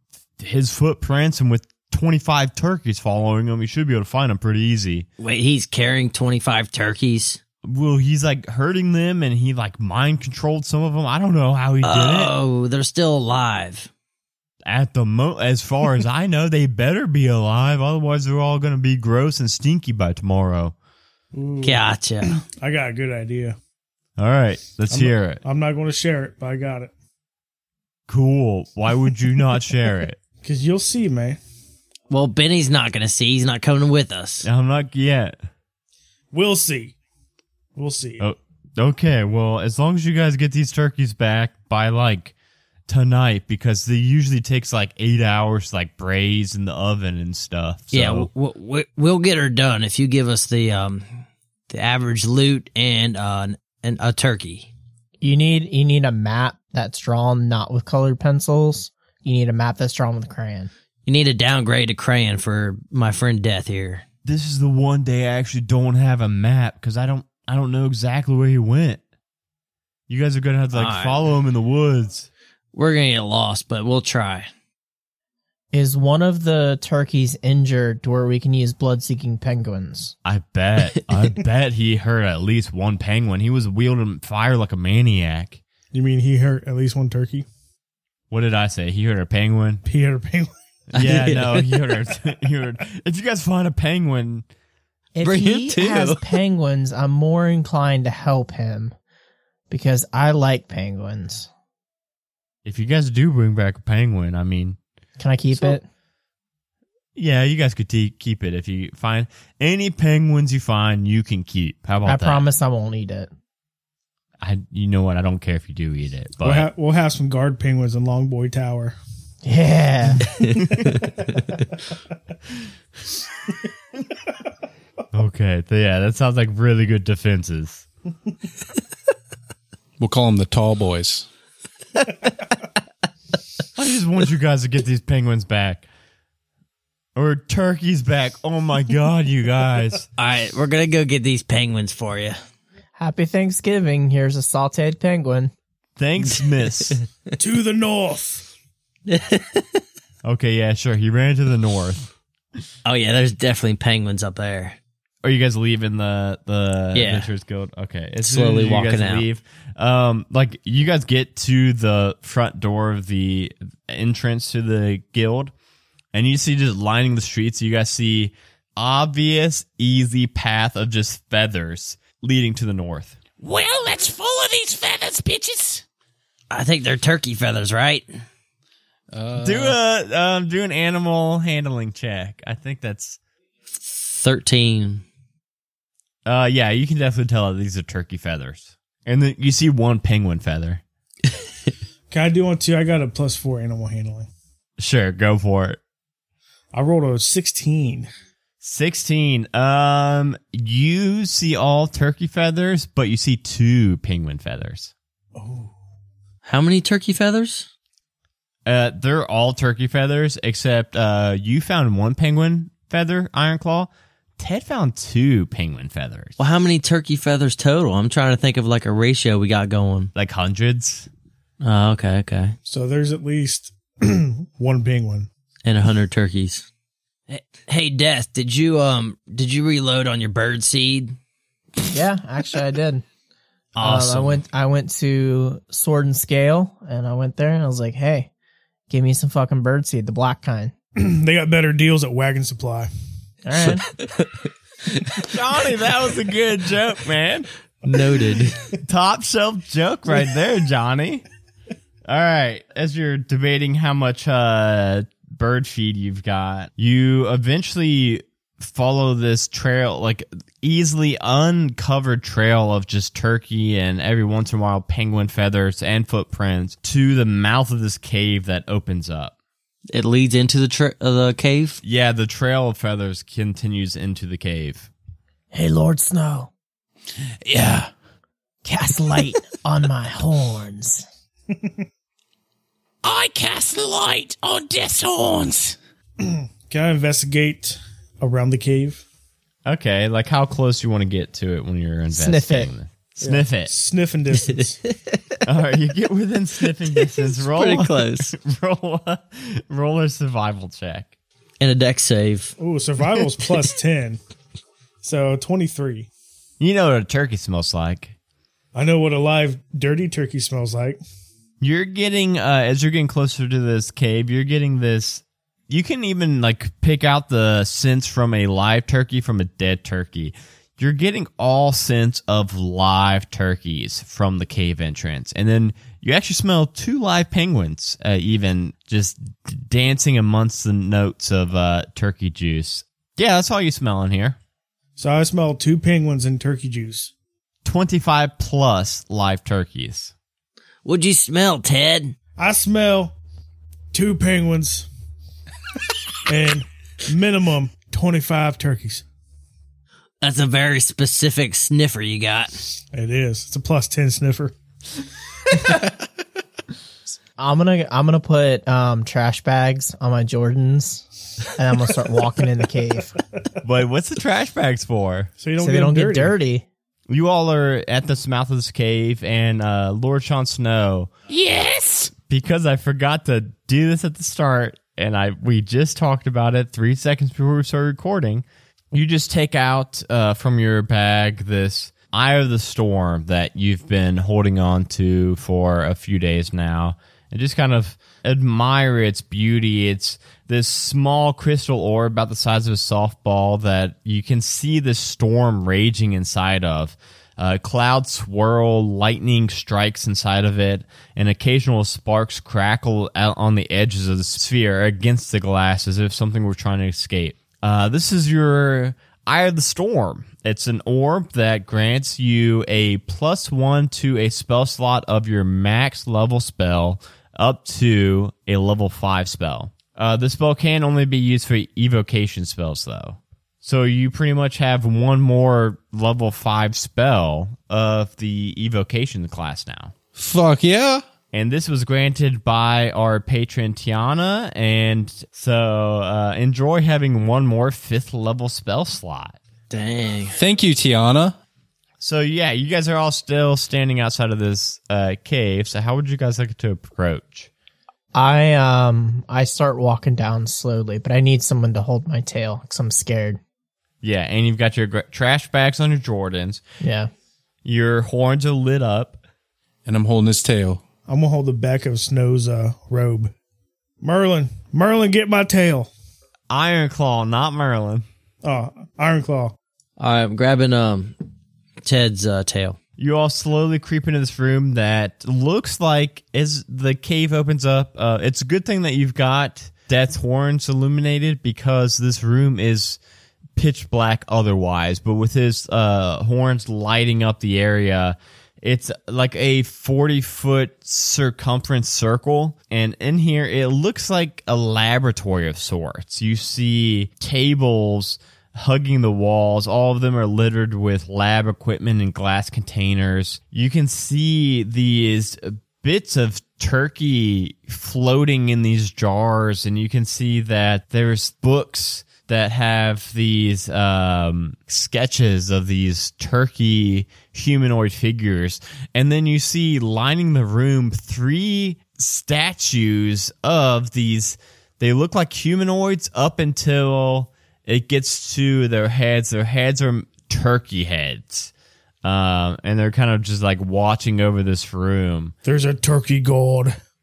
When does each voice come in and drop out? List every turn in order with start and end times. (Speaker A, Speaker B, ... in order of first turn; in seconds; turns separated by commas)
Speaker A: 0.4-5.1, Speaker B: 5.2-7.4, Speaker A: 7.7-12.3, Speaker B: 11.8-13.9, Speaker A: 14.7-20.8, Speaker C: 21.3-21.8, Speaker B: 21.6-22.4, Speaker C: 22.3-23.6, Speaker A: 24.2-25.4, Speaker C: 24.9-26.9, Speaker A: 28.1-30.2, Speaker C: 30.4-31.4, Speaker B: 32.1-34.5, Speaker A: 34.4-35.4, Speaker C: 36.3-37.0, Speaker C: 37.8-38.2, Speaker A: 38.2-42.3, Speaker A: 42.9-48.3, Speaker B: 47.9-54.7, Speaker D: 55.2-60.7, Speaker B: 61.1-64.0, Speaker A: 64.2-69.0, Speaker A: 70.1-72.3, Speaker B: 70.7-71.2, Speaker B: 72.7-74.5, Speaker D: 75.7-80.1, Speaker A: 80.2-85.6, Speaker C: 85.9-87.5, Speaker A: 88.3-89.8, Speaker C: 89.9-90.5, Speaker B: 90.9-91.8, Speaker A: 90.9-94.5, Speaker D: 95.2-99.0, Speaker B: 95.2-96.3, Speaker D: 99.7-101.5, Speaker A: 102.7-104.8, Speaker D: 105.2-105.8, Speaker A: 107.2-112.5, Speaker D: 112.1-113.3, Speaker A: 114.4-116.7, Speaker C: 116.4-119.0, Speaker D: 119.4-120.3, Speaker A: 125.1-127.8, Speaker E: 130.0-131.3, Speaker A: 133.8-135.9, Speaker A: 137.2-140.1, Speaker B: 140.2-142.4, Speaker D: 143.0-145.5, Speaker A: 146.0-147.0, Speaker C: 147.4-148.5, Speaker B: 149.1-149.8, Speaker A: 150.2-152.1, Speaker B: 152.8-154.8, Speaker A: 155.2-165.5, Speaker B: 156.9-157.3, Speaker B: 158.2-159.2, Speaker A: 166.1-173.2, Speaker F: 173.4-175.8, Speaker B: 176.5-178.1, Speaker E: 179.1-179.8, Speaker A: 179.3-183.2, Speaker B: 183.8-185.1, Speaker A: 186.3-190.8, Speaker C: 192.1-194.3, Speaker A: 194.8-195.8, Speaker C: 196.7-198.1, Speaker A: 198.6-204.9, Speaker C: 205.3-205.7, Speaker B: 206.4-207.7, Speaker A: 208.7-216.4, Speaker B: 216.4-220.1, Speaker A: 220.2-221.1, Speaker B: 221.6-222.6, Speaker C: 222.7-225.3, Speaker B: 225.7-226.7, Speaker B: 227.3-231.2, Speaker D: 231.9-233.1, Speaker B: 233.8-234.4, Speaker D: 233.8-238.3, Speaker D: 238.9-240.7, Speaker C: 241.0-242.9, Speaker D: 243.4-243.9, Speaker B: 243.9-244.3, Speaker B: 245.0-245.2, Speaker A: 245.2-247.5, Speaker B: 247.8-248.7, Speaker A: 248.8-251.2, Speaker A: 252.1-269.3, Speaker B: 269.9-271.8, Speaker A: 271.8-274.9, Speaker D: 275.5-276.5, Speaker F: 277.4-277.9, Speaker D: 278.6-281.1, Speaker C: 281.5-281.8, Speaker F: 283.0-285.8, Speaker C: 286.2-289.1, Speaker A: 289.7-293.7, Speaker D: 292.1-292.7, Speaker C: 293.2-294.8, Speaker B: 294.9-295.4, Speaker A: 295.4-301.1, Speaker B: 297.0-298.3, Speaker B: 301.6-302.6, Speaker C: 302.6-304.2, Speaker C: 305.0-306.1, Speaker A: 306.6-308.1, Speaker C: 308.7-311.0, Speaker A: 311.6-334.4, Speaker C: 335.0-337.1, Speaker A: 337.6-340.1, Speaker B: 340.9-342.1, Speaker C: 342.4-343.1, Speaker C: 343.9-344.9, Speaker C: 346.3-349.0, Speaker B: 350.2-352.6, Speaker C: 352.9-354.6, Speaker D: 357.4-363.1, Speaker A: 363.6-365.3, Speaker C: 365.4-366.4, Speaker D: 365.6-366.7, Speaker A: 367.1-371.1, Speaker F: 371.3-372.1, Speaker A: 372.2-429.9, Speaker E: 430.1-431.0, Speaker A: 431.3-439.4, Speaker B: 439.7-440.4, Speaker E: 440.4-441.4, Speaker A: 442.0-447.5, Speaker D: 448.1-453.4, Speaker A: 454.0-456.6, Speaker D: 456.8-457.1, Speaker A: 457.6-459.2, Speaker E: 459.9-460.8, Speaker C: 461.1-463.3, Speaker C: 464.0-465.9, Speaker A: 466.5-468.1, Speaker C: 468.4-469.6, Speaker B: 470.0-471.1, Speaker B: 471.8-472.8, Speaker A: 473.0-483.0, Speaker A: 483.6-531.5, Speaker A: 532.0-535.3, Speaker C: 535.5-536.8